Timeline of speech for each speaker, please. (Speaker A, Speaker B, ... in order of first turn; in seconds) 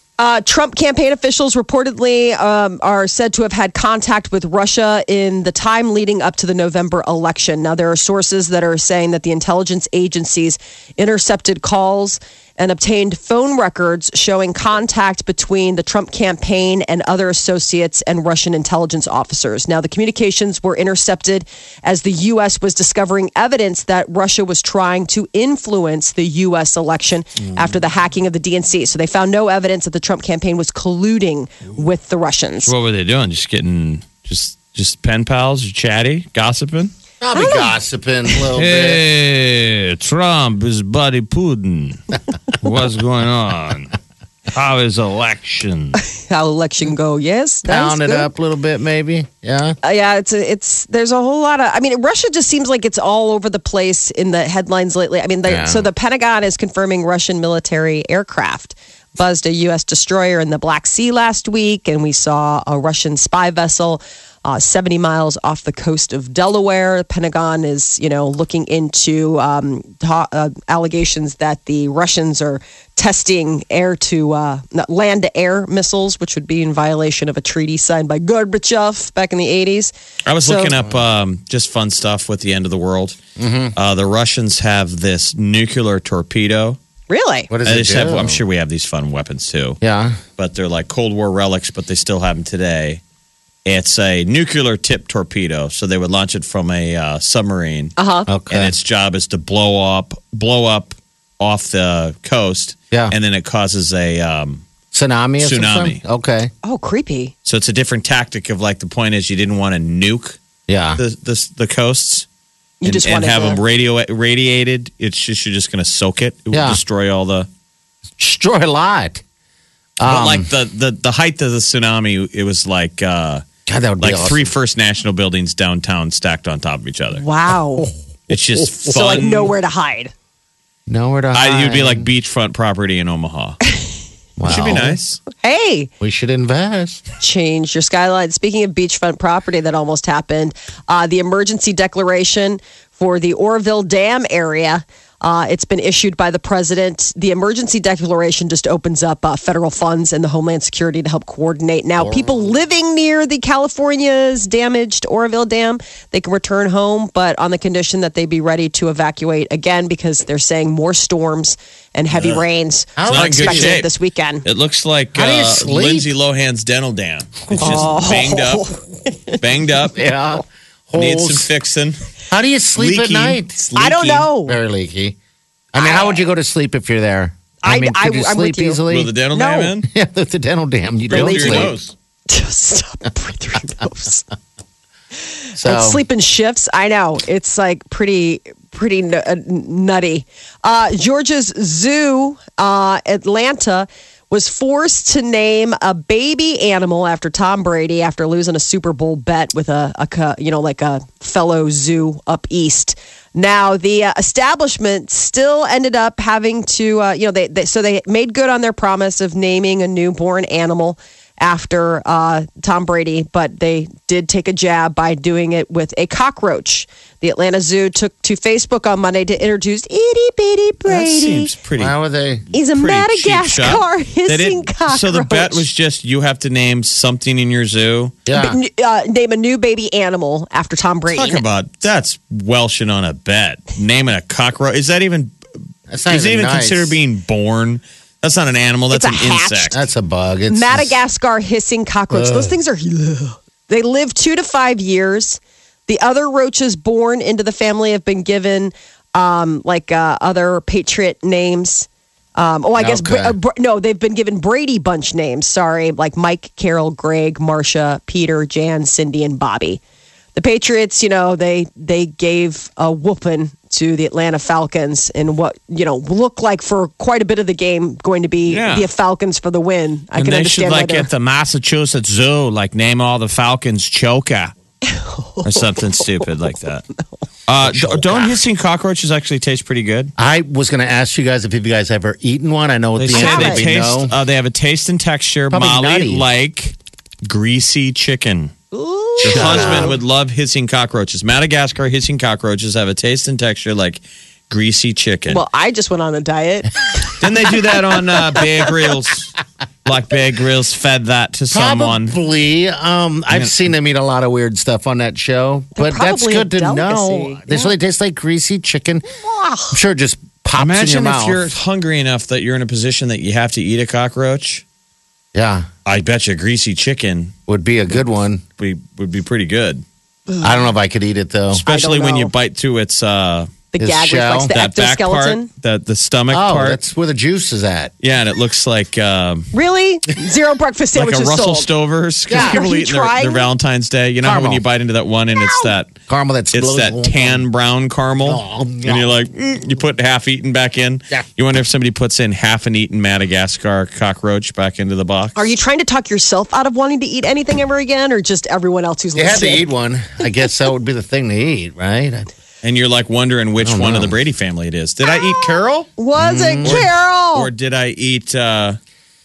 Speaker A: 0.2-32.7, 37.3-37.7, 46.1-48.3, 49.8-80.8, 87.1-87.5, 98.0-98.3, 106.6-107.3, 112.8-113.6, 127.2-127.9, 128.8-130.1, 135.4-135.9, 137.2-164.4, 167.5-169.4, 173.8-174.6, 175.8-176.2, 177.6-179.7, 181.1-181.8, 182.3-184.3, 185.6-221.5, 222.5-225.7, 228.3-231.4, 238.9-239.8, 240.5-259.8, 260.4-271.1, 274.9-276.3, 283.1-283.6, 288.7-289.9, 295.3-297.6, 305.8-307.7, 309.2-309.8, 320.3-320.7, 321.6-322.3, 323.7-325.5, 329.5-331.7, 332.4-333.5, 335.4-335.7, 345.4-349.6, 355.1-357.5
Speaker B: 27.4-27.8, 37.2-39.0, 47.7-49.8, 55.5-55.9, 83.4-83.7, 87.5-88.4, 89.8-90.2, 98.3-98.7, 104.9-106.5, 110.7-111.0, 116.5-116.8, 118.2-119.2, 120.0-120.5, 123.7-124.5, 127.8-128.7, 130.9-132.1, 134.4-135.0, 136.0-137.0, 152.0-152.4, 163.0-163.8, 165.1-166.1, 167.6-167.9, 169.9-171.5, 172.3-173.5, 174.5-175.2, 175.7-179.1, 179.9-181.7, 185.6-186.0, 221.8-222.4, 228.3-228.6, 235.9-237.0, 239.7-240.9, 242.1-242.5, 252.8-253.4, 277.6-278.4, 280.2-284.1, 285.5-286.3, 289.2-290.0, 301.5-309.1, 309.7-311.5, 315.3-315.7, 317.5-318.4, 320.4-321.6, 323.8-324.5, 326.3-327.9, 332.3-332.6, 334.2-334.6, 336.1-337.4, 338.2-339.1, 349.1-352.3, 353.6-354.1, 356.2-356.9
Speaker C: 32.6-36.9, 38.5-42.0, 42.6-44.0, 44.5-46.0, 80.3-83.2, 83.8-86.8, 87.7-89.8, 90.4-93.0, 93.7-98.0, 98.5-104.7, 105.4-106.0, 107.5-110.4, 111.0-112.3, 112.8-117.5, 120.0-123.5, 124.0-127.2, 128.3-129.5, 131.3-133.6, 134.5-135.2, 162.1-162.4, 163.1-163.9, 164.4-168.7, 169.4-170.0, 170.9-172.0, 172.8-174.3, 178.9-179.9, 181.1-181.9, 220.9-222.0, 222.6-228.2, 231.1-235.3, 236.1-239.8, 268.5-268.9, 270.1-274.5, 275.4-276.8, 277.5-280.1, 283.0-288.5, 289.2-295.4, 297.2-299.3, 299.9-302.1, 303.3-303.6, 310.6-314.6, 315.9-317.3, 318.6-319.8, 321.5-323.5, 324.5-326.8, 328.0-329.5, 330.9-335.9, 336.5-345.4, 352.6-355.9, 356.6-358.8